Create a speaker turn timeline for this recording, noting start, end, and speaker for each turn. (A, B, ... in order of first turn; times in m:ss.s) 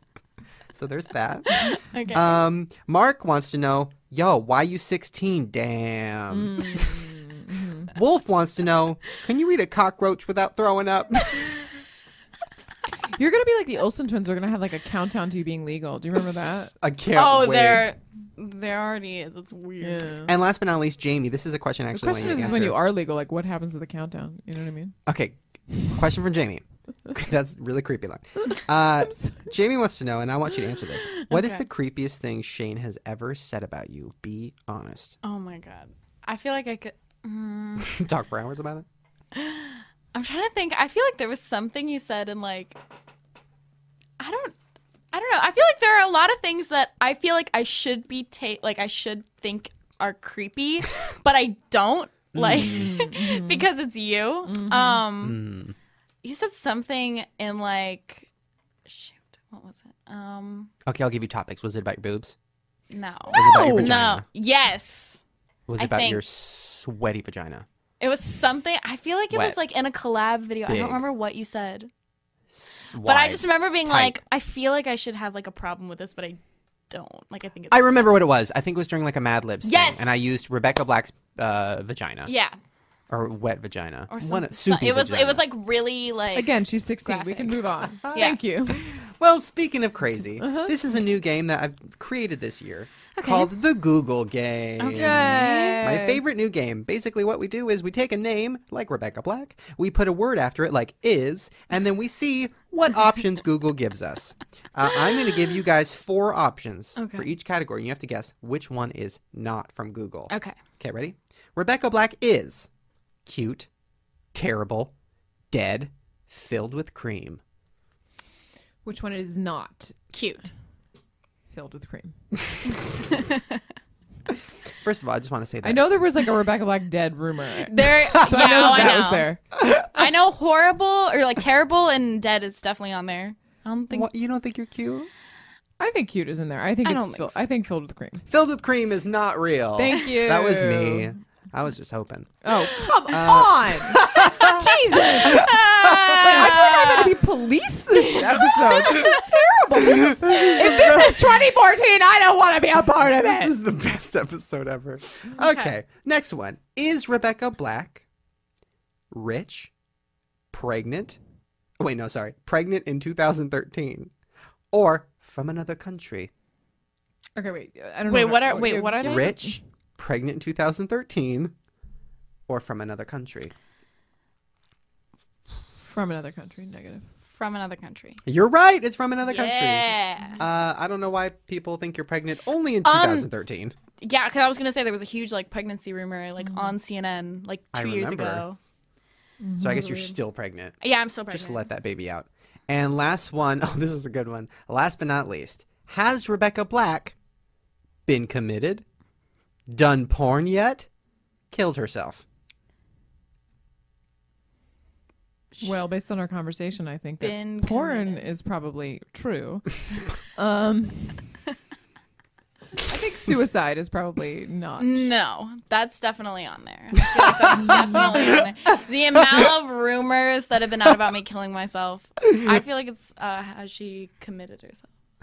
0:00.7-0:07.0 A
0:01.6-0:02.4 B
0:06.3-0:07.9 C
0:07.9-0:11.5 A
0:13.1-0:16.7 C
0:16.8-0:17.9 A
0:17.1-0:20.1 B
0:19.8-0:20.3 C
0:20.3-0:22.8 A
0:21.9-0:25.0 C
0:25.0-0:35.2 A
0:29.1-0:29.5 C
0:31.3-0:31.6 B
0:35.2-0:37.9 B
0:37.8-0:38.9 A
0:39.3-0:42.8 B
0:44.2-0:44.6 B
0:45.1-0:55.4 B
0:52.3-0:52.9 A
0:52.5-0:53.7 C
0:54.5-0:55.0 C
0:55.2-0:55.7 A
0:56.2-0:58.3 B
0:58.9-1:00.7 B
1:00.9-1:02.3 A
1:02.9-1:05.2 B
1:03.3-1:04.0 C
1:03.3-1:04.2 A
1:05.7-1:07.6 A
1:05.8-1:06.2 B
1:08.0-1:11.9 B
1:09.3-1:09.6 A
1:10.6-1:11.0 A
1:12.5-1:14.2 A
1:13.0-1:16.4 B
1:16.9-1:18.1 B
1:17.7-1:22.3 A
1:19.6-1:20.1 B
1:22.3-1:22.6 B
1:23.1-1:25.4 A
1:24.1-1:28.4 B
1:26.3-1:29.0 C
1:28.0-1:52.7 A
1:30.4-1:30.8 C
1:33.2-1:33.5 B
1:34.8-1:35.8 B
1:34.9-1:36.2 C
1:47.0-1:47.3 B
1:50.3-1:50.6 B
1:53.2-1:53.7 A
1:54.3-1:54.9 A
1:55.5-1:57.4 A
1:58.8-2:00.0 C
2:00.1-2:00.5 B
2:01.5-2:02.2 C
2:02.9-2:03.6 B
2:04.8-2:06.0 A
2:05.6-2:09.4 C
2:07.6-2:09.3 B
2:08.1-2:09.0 A
2:09.6-2:10.1 A
2:10.0-2:14.1 B
2:13.9-2:15.1 A
2:15.8-2:18.2 C
2:16.8-2:17.3 B
2:18.3-2:24.7 A
2:19.8-2:21.1 C
2:22.4-2:25.6 C
2:24.4-2:27.2 B
2:25.2-2:26.7 A
2:26.2-2:33.6 C
2:28.1-2:29.1 B
2:29.7-2:31.4 A
2:33.0-2:38.0 A
2:35.4-2:35.7 B
2:39.1-2:39.7 A
2:40.5-2:41.2 A
2:41.8-2:44.1 A
2:44.7-2:46.3 A
2:47.4-2:49.6 C
2:48.1-2:49.4 B
2:49.0-2:51.5 A
2:52.5-2:53.5 A
2:55.8-2:57.0 C
2:57.3-2:58.2 B
2:58.3-3:03.7 A
2:59.3-3:00.4 B
3:02.8-3:03.3 B
3:04.0-3:08.6 B
3:06.4-3:06.7 C
3:07.7-3:08.4 A
3:09.4-3:10.0 C
3:09.6-3:10.8 A
3:09.8-3:10.0 B
3:10.8-3:11.7 B
3:11.3-3:17.1 A
3:18.1-3:18.8 A
3:19.7-3:20.9 A
3:21.5-3:22.2 A
3:25.6-3:31.2 C
3:27.2-3:28.3 B
3:32.8-3:35.1 C
3:34.8-3:44.9 B
3:37.2-3:38.5 A
3:37.6-3:38.2 C